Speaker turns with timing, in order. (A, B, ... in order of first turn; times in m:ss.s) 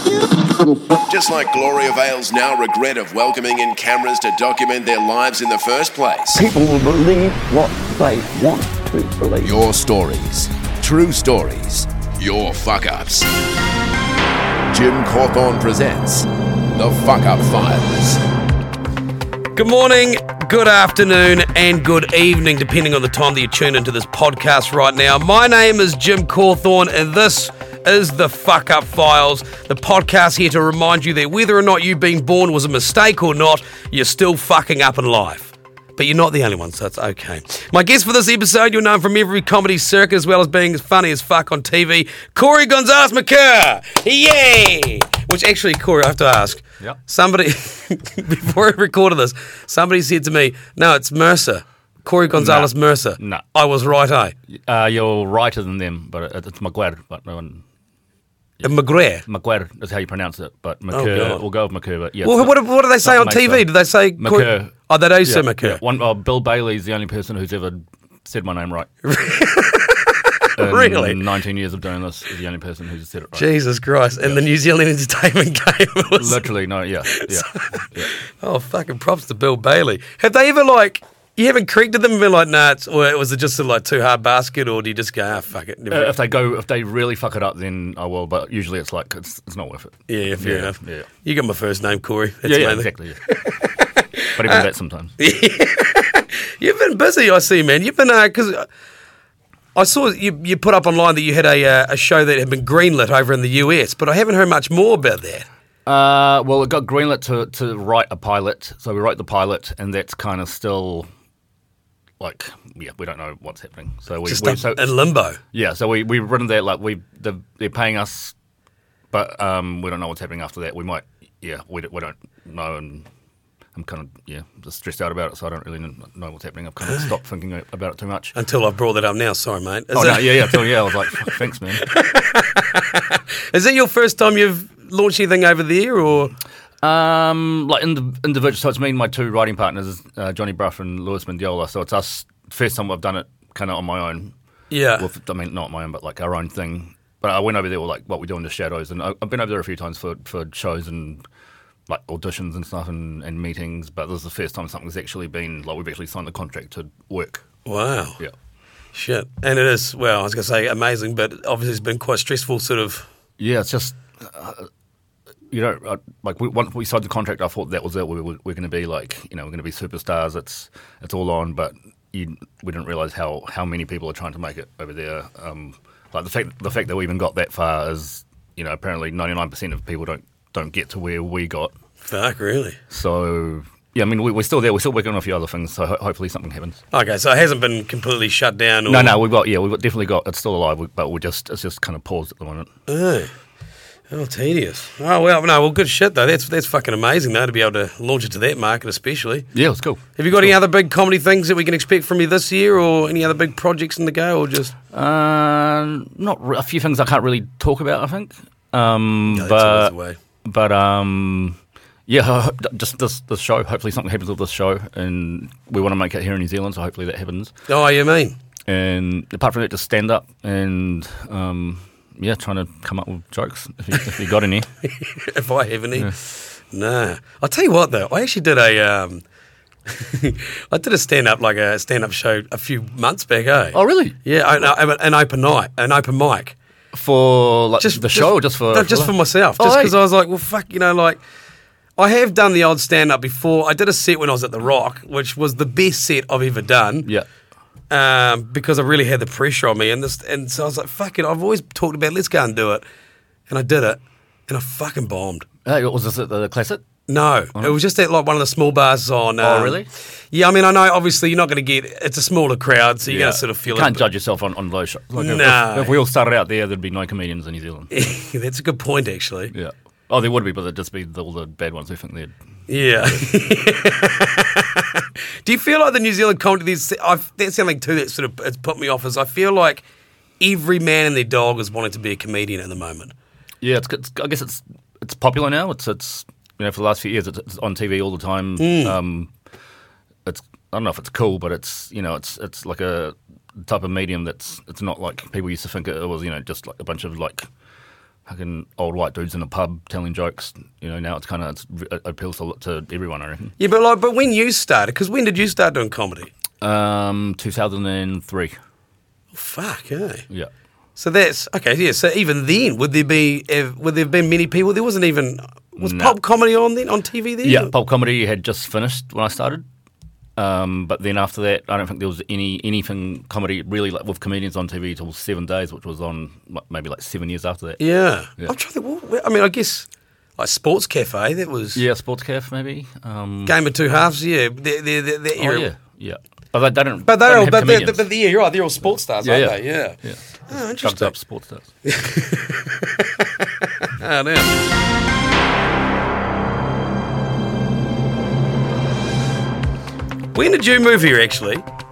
0:00.6-0:01.0 A
0:01.1-0:06.4 B
0:06.4-0:09.6 A
0:09.4-0:13.3 B
0:14.7-0:18.2 B
0:19.6-0:54.4 C
0:52.3-0:53.4 D
0:54.5-0:57.6 D
0:58.6-0:59.2 C
0:59.2-1:04.7 D
1:00.9-1:01.4 C
1:02.2-1:05.8 C
1:05.2-1:08.9 D
1:09.0-1:11.2 C
1:10.6-1:13.5 D
1:13.4-1:16.5 C
1:16.2-1:18.1 D
1:17.1-1:26.2 C
1:25.9-1:31.1 D
1:30.1-1:34.7 C
1:32.4-1:33.2 D
1:34.4-1:35.1 D
1:35.2-1:38.7 C
1:39.8-1:45.5 C
1:45.9-1:51.1 D
1:52.2-1:54.9 D
1:54.3-1:55.4 C
1:55.5-1:58.4 D
1:59.1-2:03.1 D
2:03.8-2:08.3 D
2:08.4-2:16.3 C
2:09.9-2:11.9 D
2:16.8-2:24.3 D
2:24.7-2:25.1 C
2:25.0-2:31.2 D
2:31.9-2:37.4 D
2:37.6-2:38.2 C
2:38.9-2:43.1 C
2:43.4-2:44.7 D
2:45.5-3:01.7 D
3:02.0-3:02.8 C
3:02.9-3:06.8 D
3:06.9-3:09.2 C
3:08.9-3:12.7 D
3:12.9-3:13.3 C
3:14.1-3:19.5 C
3:19.5-3:20.6 D
3:20.2-3:24.8 C
3:24.9-3:29.9 D
3:29.3-3:30.2 C
3:30.4-3:37.5 D
3:37.7-3:38.4 C
3:38.7-3:44.7 D
3:44.9-3:49.2 C
3:49.9-3:56.6 C
3:53.7-3:54.7 D
3:56.9-4:00.0 D
3:57.8-4:01.2 C
4:02.0-4:07.1 C
4:07.9-4:12.8 C
4:13.5-4:15.5 C
4:15.7-4:16.8 D
4:17.1-4:24.1 C
4:19.4-4:19.9 D
4:23.1-4:27.9 D
4:25.2-4:26.0 C
4:27.9-4:29.5 C
4:29.5-4:32.3 D
4:32.7-4:39.8 C
4:40.4-4:43.1 C
4:43.6-4:49.3 D
4:48.6-4:49.0 C
4:50.3-4:57.5 D
4:58.3-5:03.5 D
5:03.6-5:06.3 C
5:06.6-5:08.6 D
5:09.3-5:10.2 C
5:11.0-5:17.7 C
5:15.8-5:16.2 D
5:17.4-5:19.6 D
5:20.4-5:27.8 D
5:27.8-5:29.9 C
5:30.4-5:31.8 C
5:31.8-5:33.6 D
5:33.5-5:35.7 C
5:35.4-5:38.0 D
5:37.1-5:40.0 C
5:39.2-5:41.7 D
5:40.5-5:41.1 C
5:41.8-5:44.6 C
5:50.3-5:51.6 C